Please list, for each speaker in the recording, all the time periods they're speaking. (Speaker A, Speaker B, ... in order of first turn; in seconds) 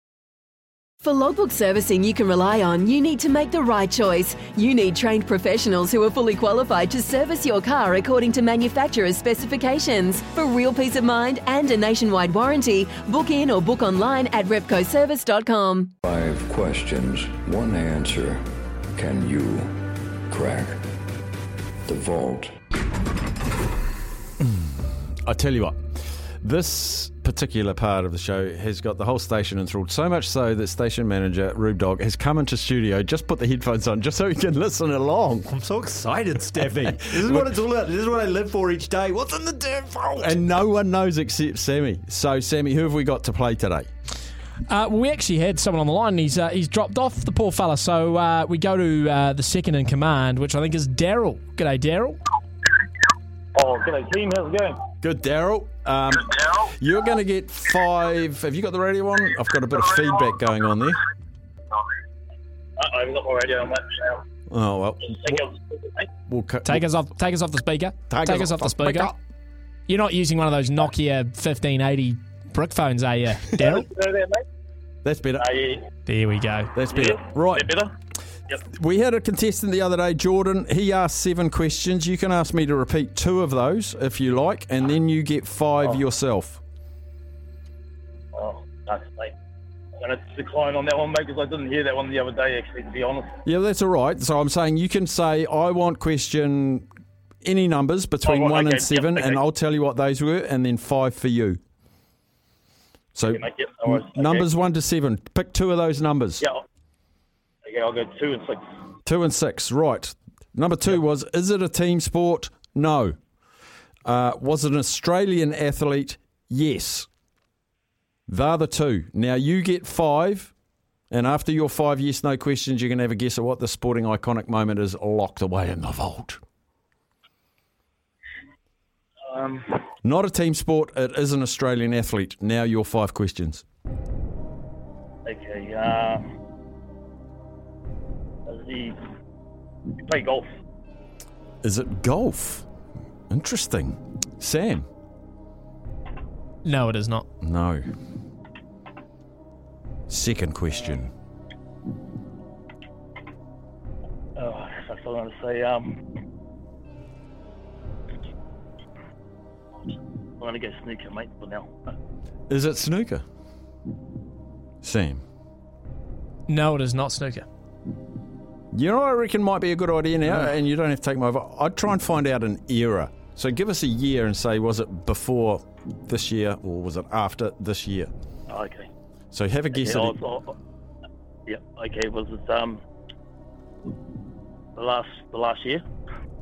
Speaker A: 1.0-15.9
Speaker B: 16.0-20.9, 21.9-22.6
Speaker C: 24.4-35.5, 36.8-37.6, 40.2-43.9, 55.0-61.0, 64.5-65.4, 66.3-66.8, 68.1-69.1, 75.0-75.5, 76.8-77.8, 78.6-86.6, 93.5-96.9, 97.4-101.6, 103.2-106.4, 109.0-113.2, 114.0-117.1, 118.3-120.5, 121.1-126.4, 130.0-133.6, 141.6-142.7, 143.3-144.8, 147.4-147.8, 150.1-151.1, 162.5-163.2, 164.8-165.2, 168.7-178.1, 179.3-180.2
Speaker D: 35.5-40.4
Speaker E: 44.7-52.2, 66.6-69.1, 69.9-73.8, 76.1-76.8, 146.6-147.2, 166.5-167.5
Speaker F: 53.5-54.8, 62.8-64.2, 65.1-66.1, 73.6-74.4, 75.4-75.9, 76.9-77.9, 88.3-89.3, 90.0-93.3, 98.2-99.4, 103.2-104.5, 107.7-108.6, 129.3-129.8, 135.2-136.2, 138.5-139.0, 140.0-140.5, 154.4-156.0, 160.4-161.7, 178.5-178.9, 179.8-180.5, 181.5-182.8, 184.8-185.8